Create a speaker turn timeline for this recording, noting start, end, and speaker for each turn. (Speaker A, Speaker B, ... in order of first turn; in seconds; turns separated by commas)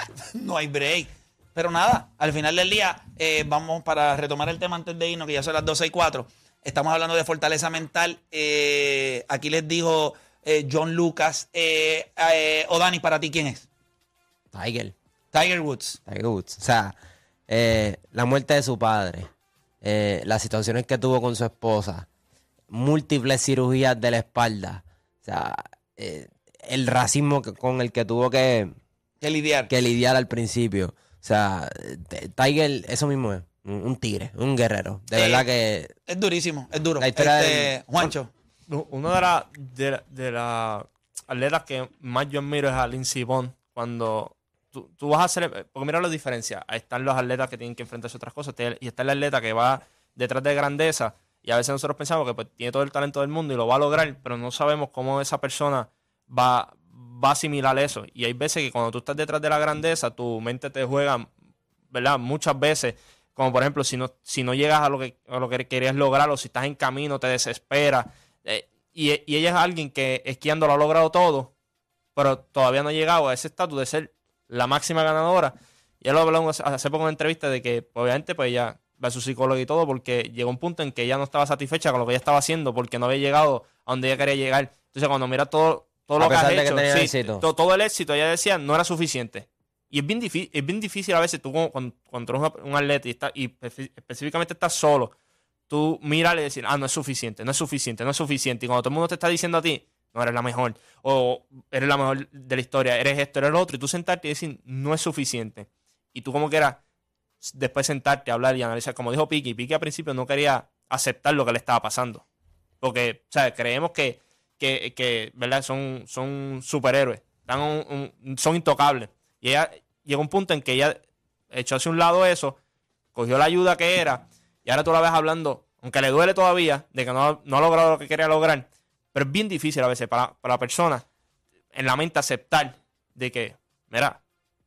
Speaker A: 0.3-13.7, Speaker B: 14.5-14.9, Speaker A: 15.3-16.0, Speaker B: 16.1-16.9, Speaker B: 17.5-19.3, Speaker B: 19.8-22.1, Speaker B: 22.7-28.7, Speaker A: 29.2-29.7, Speaker B: 29.7-35.9, Speaker A: 35.1-35.5, Speaker A: 36.1-38.3, Speaker B: 37.0-38.1, Speaker C: 38.7-61.3, Speaker C: 61.9-71.5, Speaker C: 72.2-95.1, Speaker B: 86.2-87.4, Speaker C: 95.7-106.8, Speaker C: 107.4-112.2, Speaker C: 112.8-121.0, Speaker C: 121.5-122.6, Speaker C: 123.1-131.0, Speaker C: 131.7-134.2